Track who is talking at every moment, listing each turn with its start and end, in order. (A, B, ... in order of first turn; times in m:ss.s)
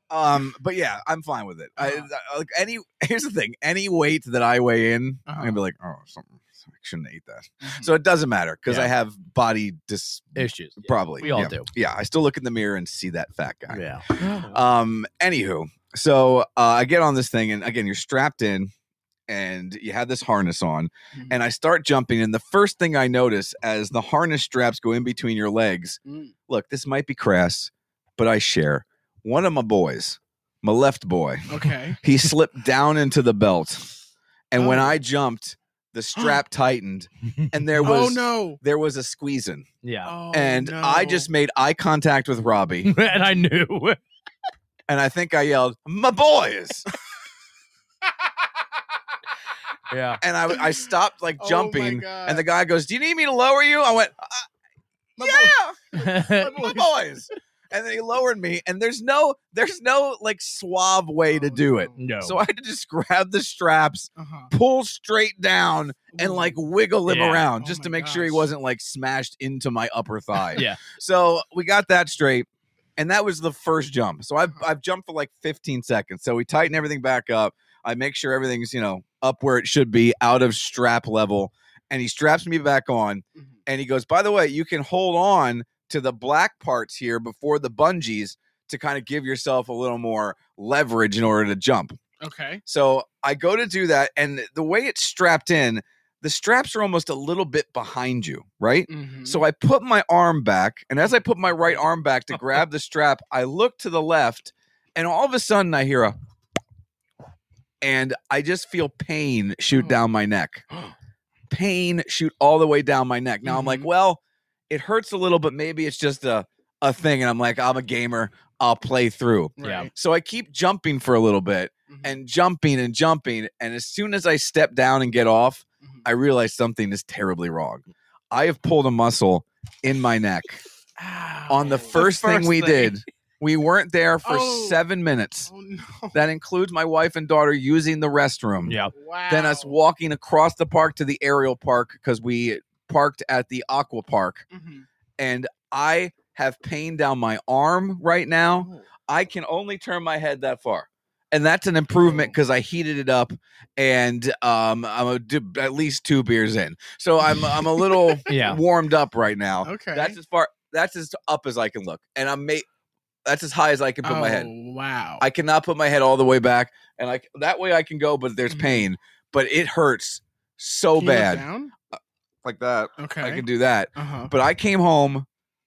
0:00.1-0:18.7 A
0:01.8-0:02.1 B
0:05.3-0:05.6 B
0:07.6-0:07.9 B
0:10.4-0:11.7 C
0:11.2-0:11.5 B
0:13.7-0:14.4 C
0:19.3-0:33.9 A
0:26.0-0:26.3 B
0:31.5-0:32.0 B
0:34.5-0:39.6 A
0:34.6-0:35.0 B
0:36.2-0:36.4 B
0:37.8-0:38.6 B
0:39.8-0:40.1 C
0:40.0-0:41.3 B
0:40.3-0:42.9 A
0:42.8-0:44.0 C
0:44.9-0:46.9 A
0:48.0-0:48.8 B
0:49.9-0:50.2 C
0:50.2-0:54.5 A
0:50.5-0:50.9 B
0:51.4-0:52.4 B
0:55.2-0:56.8 B
0:55.2-0:55.8 A
0:55.9-0:56.7 C
0:56.3-1:32.0 A
1:01.3-1:02.0 B
1:02.0-1:02.4 C
1:04.2-1:04.5 B
1:06.1-1:06.6 B
1:07.0-1:07.4 C
1:07.6-1:08.5 B
1:32.2-1:32.6 B
1:32.6-1:46.2 A
1:38.9-1:39.4 B
1:47.8-1:50.6 A
1:51.5-2:10.6 A
1:53.4-1:53.9 B
1:59.6-1:59.9 B
1:59.6-1:59.9 C
2:01.9-2:02.2 B
2:11.0-2:12.9 B
2:11.5-2:15.5 A
2:12.0-2:12.9 C
2:14.2-2:14.8 B
2:15.5-2:16.2 B
2:16.1-2:18.7 A
2:18.7-2:18.9 C
2:18.9-2:19.8 B
2:19.3-2:24.4 A
2:24.5-2:24.8 B
2:25.2-2:42.6 A
2:28.5-2:28.8 B
2:32.0-2:32.3 B
2:37.4-2:38.4 B
2:38.3-2:38.6 C
2:39.6-2:40.2 B
2:43.2-2:44.5 A
2:44.0-2:45.2 B
2:45.2-2:55.2 A
2:48.5-2:48.9 B
2:51.0-2:51.7 B
2:53.0-2:54.3 B